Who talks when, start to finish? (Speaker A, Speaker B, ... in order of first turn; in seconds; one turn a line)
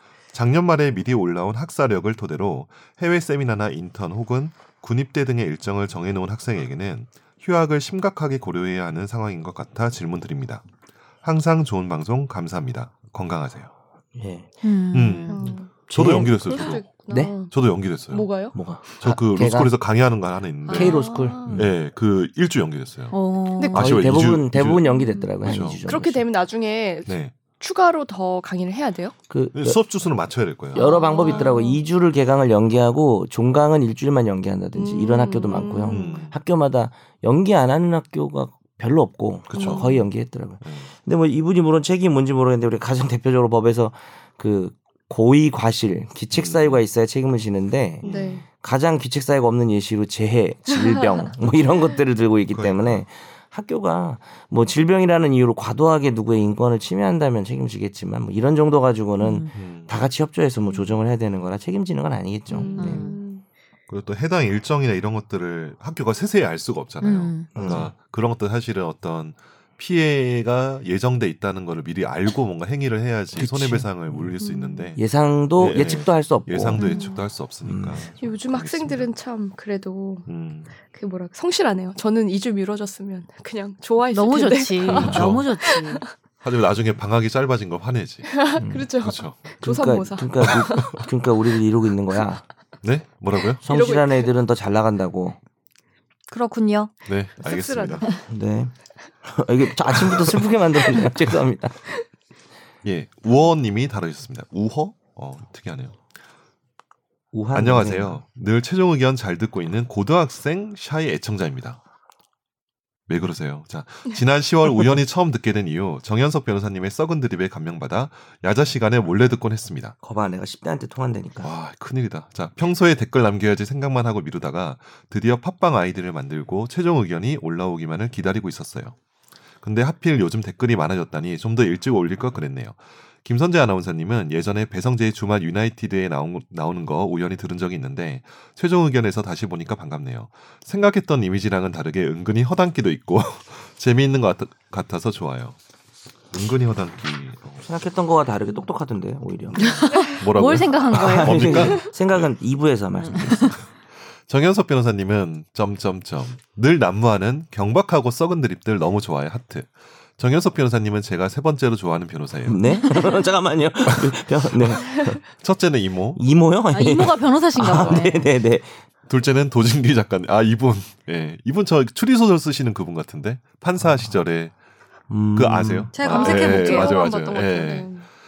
Speaker A: 0.3-10.6
Speaker A: 11.2-13.7
Speaker B: 14.2-14.5
Speaker C: 14.6-15.5
Speaker A: 14.9-16.9
Speaker D: 15.3-17.5
Speaker B: 15.9-17.4
Speaker A: 17.5-18.3
Speaker D: 18.1-18.6
Speaker B: 18.5-19.7
Speaker A: 19.0-23.1
Speaker D: 20.7-21.6
Speaker B: 20.7-21.7
Speaker C: 23.1-23.9
Speaker D: 23.6-23.9
Speaker A: 23.7-24.9
Speaker B: 23.7-26.2
Speaker D: 24.8-25.3
Speaker A: 25.4-25.8
Speaker D: 25.9-29.2
Speaker A: 27.1-27.3
Speaker B: 29.3-29.8
Speaker A: 29.5-31.4
Speaker D: 30.8-31.8
Speaker B: 30.8-63.0
Speaker D: 34.7-36.3
Speaker A: 35.9-36.4
Speaker A: 39.5-40.0
Speaker D: 39.5-40.0
Speaker A: 46.3-46.8
Speaker D: 48.0-48.5
Speaker A: 48.0-48.4
Speaker D: 50.7-51.2
Speaker A: 52.5-53.0
Speaker C: 59.2-59.5
Speaker A: 59.5-60.0
Speaker D: 62.5-63.4
Speaker C: 62.8-63.2
Speaker A: 63.9-75.0
Speaker C: 67.0-67.5
Speaker B: 67.5-67.9
Speaker B: 73.3-74.3
Speaker D: 74.4-74.9
Speaker B: 75.0-76.9
Speaker A: 75.6-79.1
Speaker D: 76.8-77.2
Speaker B: 77.6-78.1
Speaker D: 78.2-80.3
Speaker A: 80.3-80.7
Speaker D: 80.9-86.1
Speaker C: 84.1-86.0
Speaker A: 85.0-85.5
Speaker A: 86.4-88.4
Speaker D: 88.3-91.1
Speaker B: 88.6-88.9
Speaker A: 89.0-89.4
Speaker B: 89.6-92.4
Speaker A: 92.8-93.6
Speaker D: 93.6-94.3
Speaker B: 93.6-95.4
Speaker C: 96.3-96.9
Speaker A: 97.1-98.1
Speaker D: 97.4-98.2
Speaker B: 98.3-98.7
Speaker B: 99.2-101.9
Speaker A: 99.9-100.4
Speaker A: 102.8-106.0
Speaker B: 107.3-108.2
Speaker A: 107.5-111.8
Speaker A: 113.1-120.0
Speaker B: 120.0-121.5
Speaker A: 121.4-129.0
Speaker A: 129.6-145.6
Speaker A: 146.3-147.7
Speaker B: 147.6-150.0
Speaker C: 149.6-151.8
Speaker A: 150.2-152.3
Speaker B: 150.9-153.6
Speaker C: 153.0-153.6
Speaker A: 154.3-162.8
Speaker B: 162.4-165.2
Speaker A: 163.9-166.2
Speaker B: 166.2-168.8
Speaker C: 166.7-168.3
Speaker A: 169.1-174.5
Speaker B: 175.1-175.9
Speaker A: 175.3-177.9
Speaker C: 175.9-177.1
Speaker D: 176.0-178.1